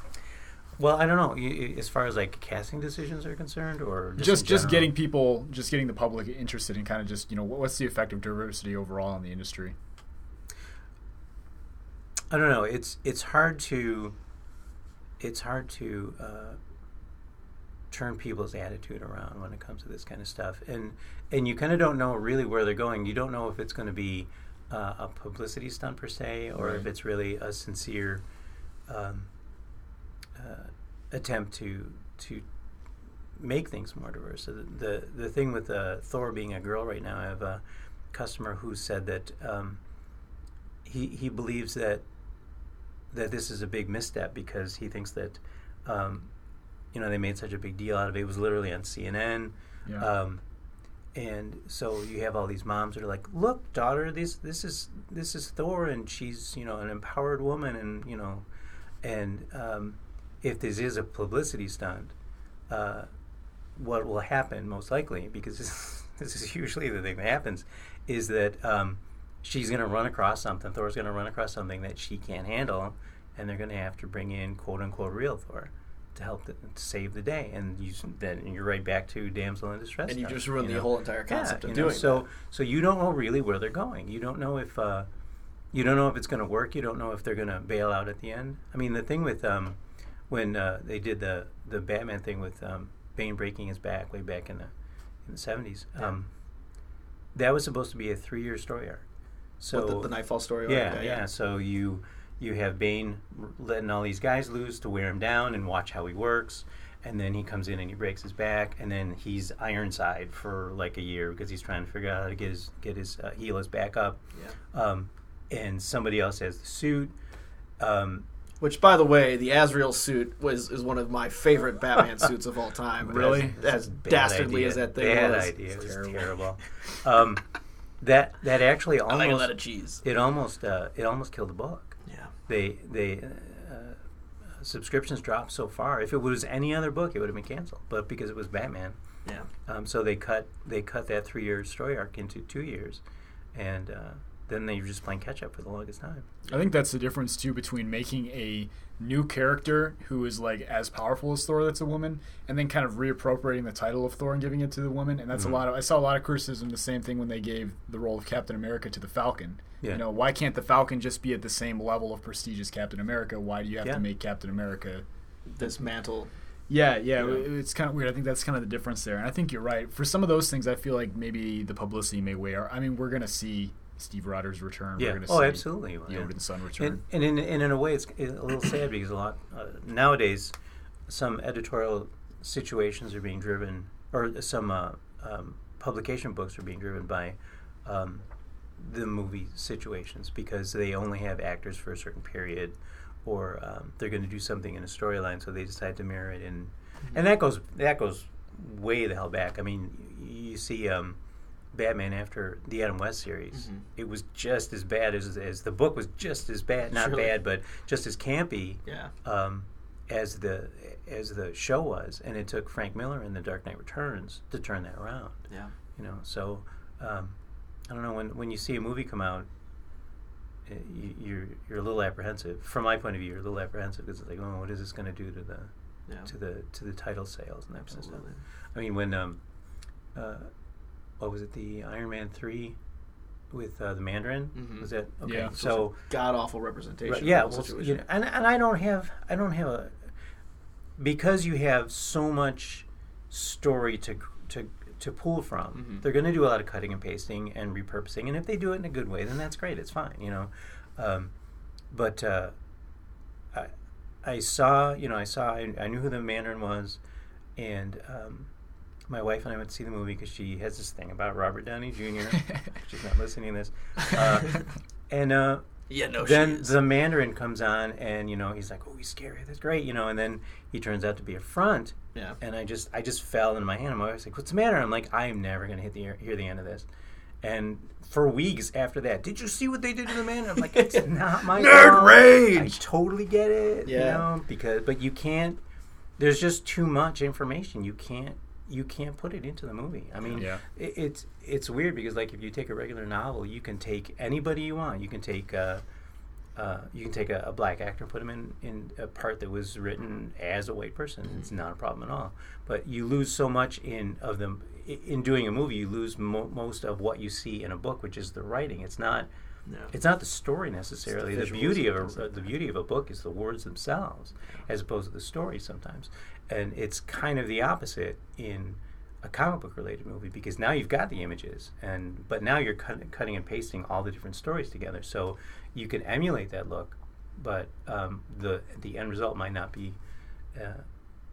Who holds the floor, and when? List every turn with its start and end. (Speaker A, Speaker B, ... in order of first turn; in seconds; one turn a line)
Speaker A: 0.8-4.9
Speaker B: 4.2-9.7
Speaker A: 12.3-14.1
Speaker A: 15.2-16.6
Speaker A: 17.9-28.2
Speaker B: 26.6-26.9
Speaker A: 28.9-29.3
Speaker A: 30.4-32.4
Speaker A: 33.4-39.8
Speaker A: 40.8-42.0
Speaker A: 43.1-46.3
Speaker A: 46.9-50.4
Speaker A: 51.1-58.5
Speaker A: 59.0-62.1
Speaker A: 62.7-63.1
Speaker A: 63.8-85.1
Speaker C: 80.1-82.3
Speaker A: 85.7-89.8
Speaker A: 90.3-94.7
Speaker A: 95.2-96.3
Speaker A: 97.3-99.0
Speaker A: 99.6-100.1
Speaker C: 99.7-101.2
Speaker A: 100.7-114.2
Speaker A: 114.7-117.1
Speaker A: 117.8-118.2
Speaker C: 118.6-125.5
Speaker B: 123.0-123.5
Speaker A: 123.1-127.5
Speaker B: 125.8-126.3
Speaker A: 128.0-134.0
Speaker C: 129.1-130.0
Speaker A: 134.6-139.0
Speaker A: 139.7-143.0
Speaker A: 143.5-146.3
Speaker B: 146.5-165.0
Speaker A: 155.3-155.6
Speaker C: 165.5-166.3
Speaker B: 166.7-177.0
Speaker A: 175.0-180.5
Speaker A: 181.1-188.2
Speaker A: 188.8-201.2
Speaker A: 201.7-217.3
Speaker C: 203.5-203.8
Speaker C: 206.9-207.3
Speaker C: 208.8-209.1
Speaker A: 217.9-219.5
Speaker A: 220.7-225.7
Speaker A: 226.2-228.2
Speaker C: 227.8-228.4
Speaker A: 228.7-229.4
Speaker A: 230.1-230.5
Speaker A: 231.2-232.8
Speaker A: 233.5-236.0
Speaker C: 234.6-234.9
Speaker B: 235.2-235.5
Speaker C: 235.5-238.0
Speaker A: 237.1-239.9
Speaker A: 241.0-251.3
Speaker C: 245.7-246.0
Speaker A: 251.9-252.5
Speaker A: 254.2-257.0
Speaker A: 257.6-258.5
Speaker A: 259.1-265.7
Speaker C: 265.9-266.8
Speaker A: 266.2-276.9
Speaker A: 277.4-285.6
Speaker C: 280.7-282.8
Speaker C: 283.8-284.2
Speaker A: 286.2-295.8
Speaker B: 290.3-290.6
Speaker A: 296.5-309.3
Speaker C: 309.7-309.9
Speaker A: 309.9-330.0
Speaker C: 311.1-312.4
Speaker A: 330.5-330.8